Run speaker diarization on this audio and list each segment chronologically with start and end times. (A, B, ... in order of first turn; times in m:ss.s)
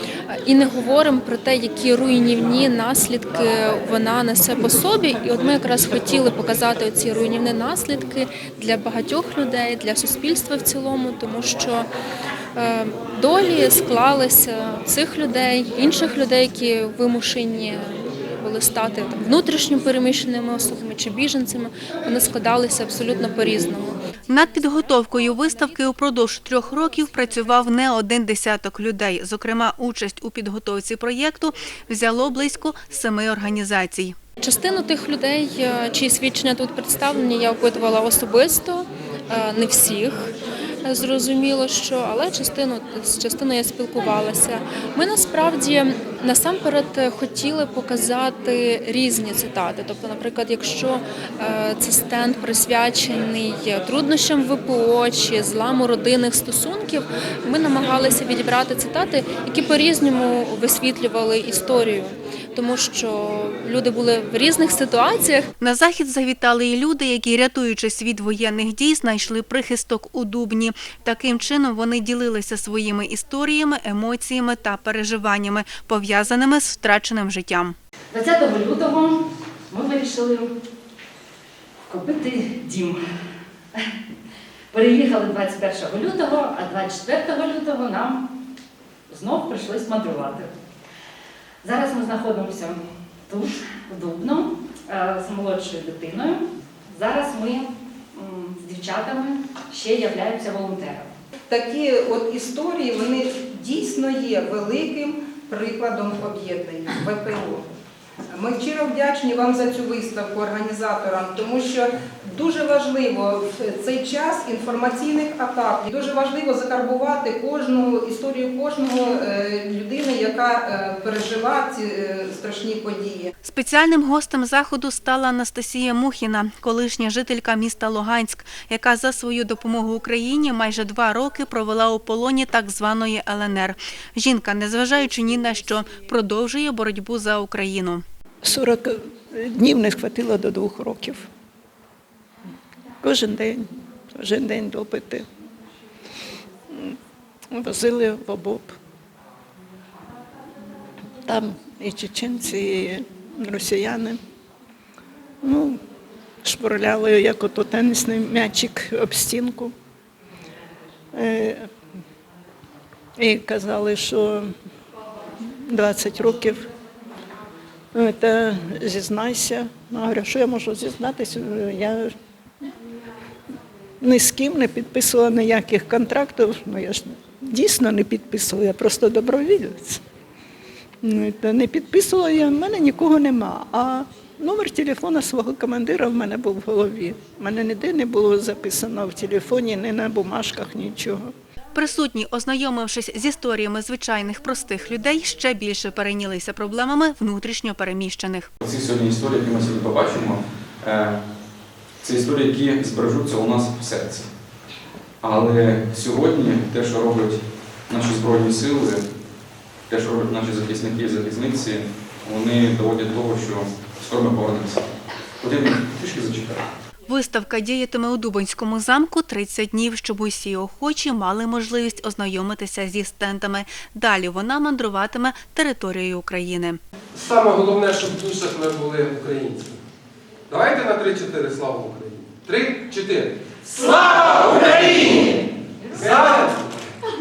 0:00.3-0:11.9 A
0:12.6-0:24.0 A
0:24.3-0:34.1 B
0:34.4-0:40.3 A
0:40.8-1:05.5 A
1:05.6-1:17.8 B
1:18.1-1:20.5 C
1:21.9-1:23.0 C
1:24.7-1:28.2 C
1:29.1-1:30.5 C
1:31.6-1:41.1 C
1:41.5-1:47.7 D
1:48.3-2:03.3 D
2:03.4-2:18.0 B
2:18.4-2:21.2 E
2:23.0-2:25.2 E
2:26.7-2:27.0 E
2:27.5-2:28.8 E
2:31.2-2:34.2 E
2:35.4-2:35.8 E
2:36.4-2:39.7 E
2:41.1-2:41.7 E
2:43.2-2:44.5 E
2:45.4-2:46.6 E
2:47.9-2:52.1 E
2:54.0-3:00.0 E
3:01.0-3:11.3 E
3:11.8-3:18.5 B
3:18.6-3:21.2 F
3:22.0-3:24.3 F
3:25.2-3:29.0 F
3:29.9-3:34.8 F
3:35.4-3:36.6 F
3:37.1-3:46.8 B
3:47.1-3:49.8 G
3:50.5-3:55.3 G
3:55.9-3:56.6 G